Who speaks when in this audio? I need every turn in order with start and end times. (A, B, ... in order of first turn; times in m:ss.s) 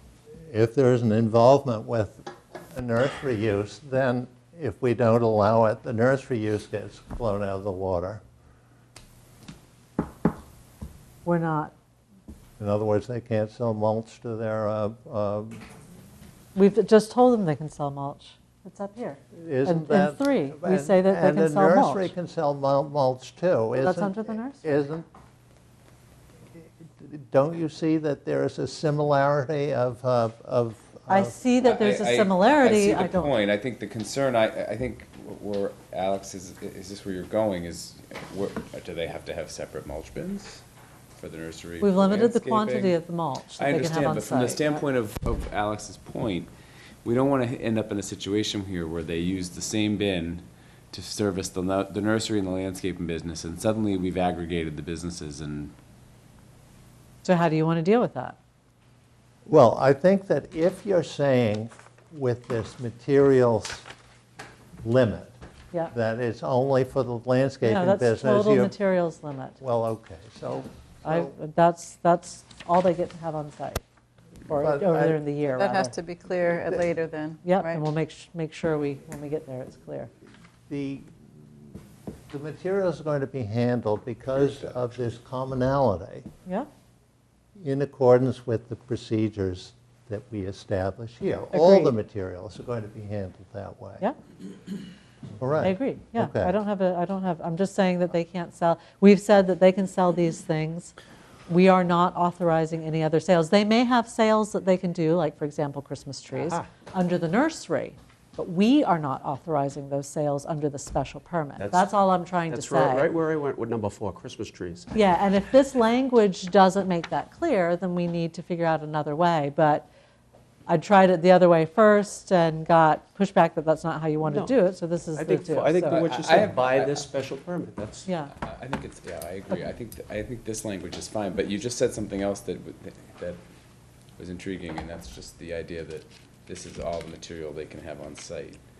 0:00.4-0:08.2 A
0:11.2-0:11.7 B
0:12.6-0:15.6 A
0:16.5-0:22.1 B
0:19.3-0:25.0 A
0:23.7-0:24.7 B
0:26.6-0:31.4 A
0:31.1-0:33.3 B
0:31.6-0:40.6 C
0:41.1-0:43.0 C
0:41.8-0:44.8 B
0:43.5-0:46.5 C
0:47.0-0:55.7 C
0:57.2-0:58.4 B
0:59.5-1:03.9 A
1:04.8-1:05.4 A
1:05.9-1:08.7 A
1:07.6-1:09.6 B
1:09.6-1:11.3 A
1:11.0-1:13.8 B
1:14.5-1:15.9 B
1:14.5-1:15.2 A
1:15.5-1:17.8 D
1:17.4-1:20.1 B
1:20.7-1:21.1 A
1:22.3-1:26.3 A
1:27.6-1:34.0 A
1:31.5-1:31.9 B
1:35.4-1:36.5 A
1:35.6-1:40.9 B
1:41.5-1:53.1 B
1:46.3-1:46.6 E
1:51.6-1:54.9 E
1:54.9-1:59.9 B
2:00.7-2:06.0 B
2:04.2-2:04.6 E
2:05.1-2:08.1 E
2:05.9-2:07.1 C
2:08.0-2:08.3 B
2:08.3-2:13.4 C
2:14.2-2:18.6 C